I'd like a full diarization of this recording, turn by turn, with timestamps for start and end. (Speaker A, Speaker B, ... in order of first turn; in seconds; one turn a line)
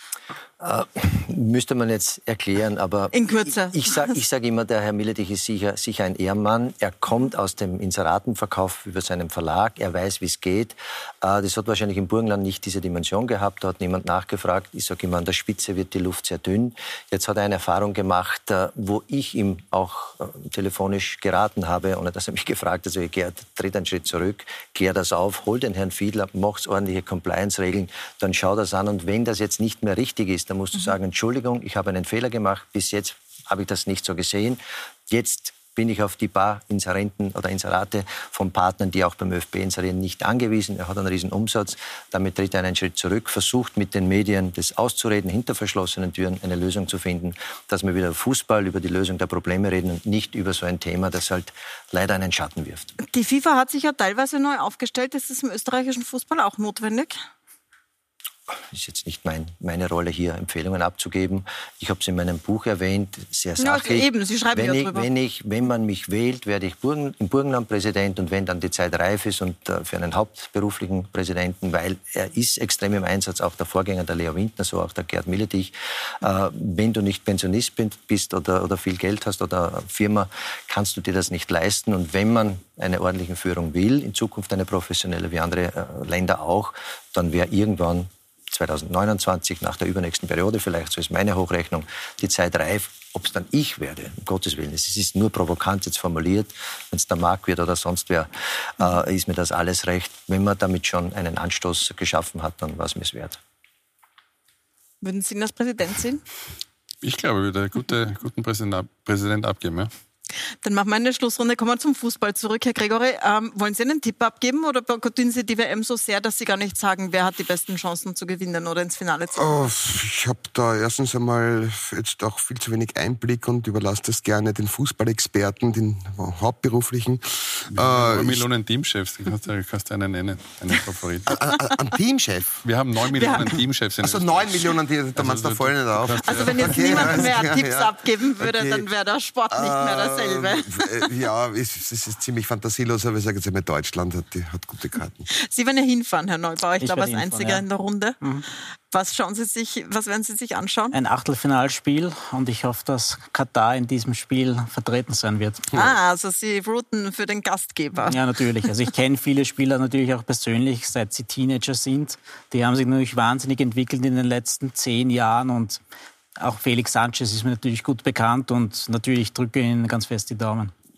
Speaker A: 0.6-52.9
Speaker B: 3.1-4.1
Speaker B: 53.0-57.2
Speaker A: 58.5-103.4
Speaker B: 63.6-65.1
Speaker B: 105.0-106.2
Speaker C: 107.0-109.9
Speaker B: 110.6-119.4
Speaker D: 119.3-128.4
Speaker C: 127.7-131.4
Speaker D: 131.3-132.6
Speaker C: 132.6-137.3
Speaker B: 133.2-133.4
Speaker D: 134.0-138.9
Speaker B: 136.2-140.9
Speaker D: 139.5-145.3
Speaker B: 145.3-148.2
Speaker E: 146.8-147.6
Speaker B: 148.9-150.9
Speaker E: 150.9-155.8
Speaker B: 155.7-158.2
Speaker E: 158.1-165.8
Speaker E: 166.4-170.7